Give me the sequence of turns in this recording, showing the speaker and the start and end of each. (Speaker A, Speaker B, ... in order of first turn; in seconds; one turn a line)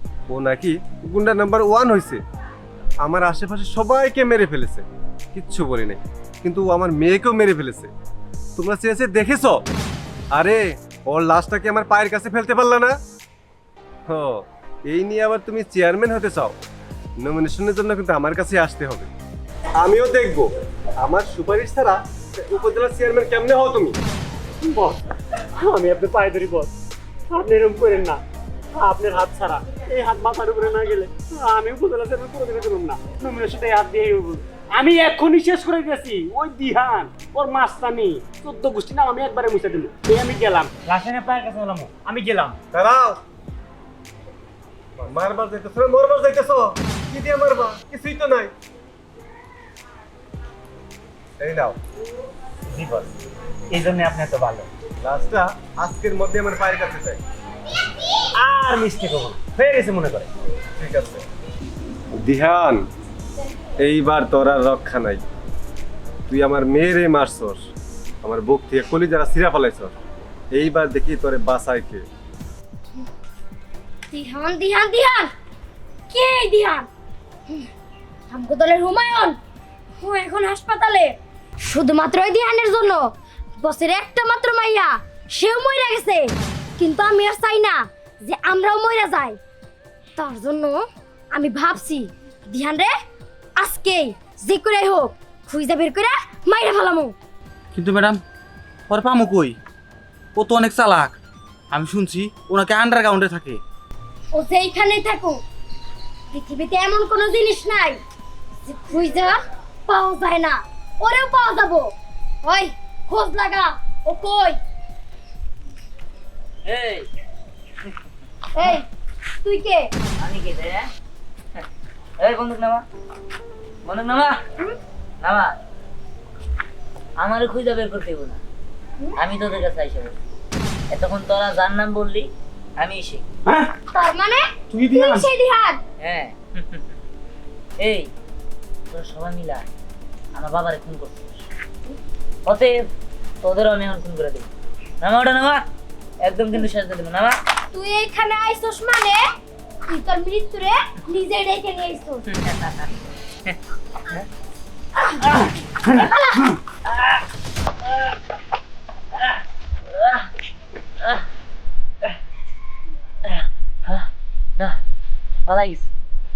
Speaker A: 0.3-2.2
Speaker A: 3.0-7.9
Speaker A: 8.6-9.6
Speaker A: 10.3-12.9
Speaker A: 14.1-16.6
Speaker A: 17.2-19.1
Speaker A: 19.8-24.0
Speaker B: 24.6-26.7
Speaker B: 27.3-28.2
Speaker B: 28.7-42.6
Speaker A: 42.7-43.2
Speaker A: 45.0-48.5
Speaker A: 51.4-51.8
Speaker B: 52.7-53.1
Speaker B: 53.7-54.7
Speaker A: 55.0-57.2
Speaker B: 58.4-60.3
Speaker A: 60.8-61.2
Speaker A: 62.1-62.9
Speaker A: 63.8-65.2
Speaker A: 66.3-67.6
Speaker A: 68.2-69.9
Speaker A: 70.5-72.0
Speaker C: 74.1-75.3
Speaker C: 76.1-76.9
Speaker C: 78.3-79.4
Speaker C: 80.0-83.0
Speaker C: 83.6-89.4
Speaker C: 90.2-90.8
Speaker C: 91.3-92.9
Speaker C: 93.6-97.1
Speaker D: 97.7-98.2
Speaker D: 98.9-99.5
Speaker D: 100.3-101.2
Speaker D: 101.7-103.6
Speaker C: 104.3-105.4
Speaker C: 106.3-108.0
Speaker C: 108.6-111.9
Speaker C: 112.4-114.6
Speaker E: 116.6-117.1
Speaker C: 118.5-118.8
Speaker C: 119.4-119.9
Speaker E: 120.2-120.8
Speaker E: 122.2-122.8
Speaker E: 123.8-124.4
Speaker E: 125.2-125.5
Speaker E: 127.2-128.4
Speaker E: 129.2-130.2
Speaker E: 130.9-133.2
Speaker C: 133.9-135.8
Speaker B: 134.7-135.3
Speaker E: 136.0-136.8
Speaker E: 137.8-138.1
Speaker E: 138.9-139.6
Speaker E: 140.3-141.4
Speaker E: 142.4-142.9
Speaker E: 143.4-145.6
Speaker E: 146.2-147.3
Speaker C: 147.7-149.2
Speaker C: 149.8-152.2
Speaker E: 152.5-152.8
Speaker E: 159.9-160.3
Speaker E: 163.2-164.8
Speaker E: 165.4-165.9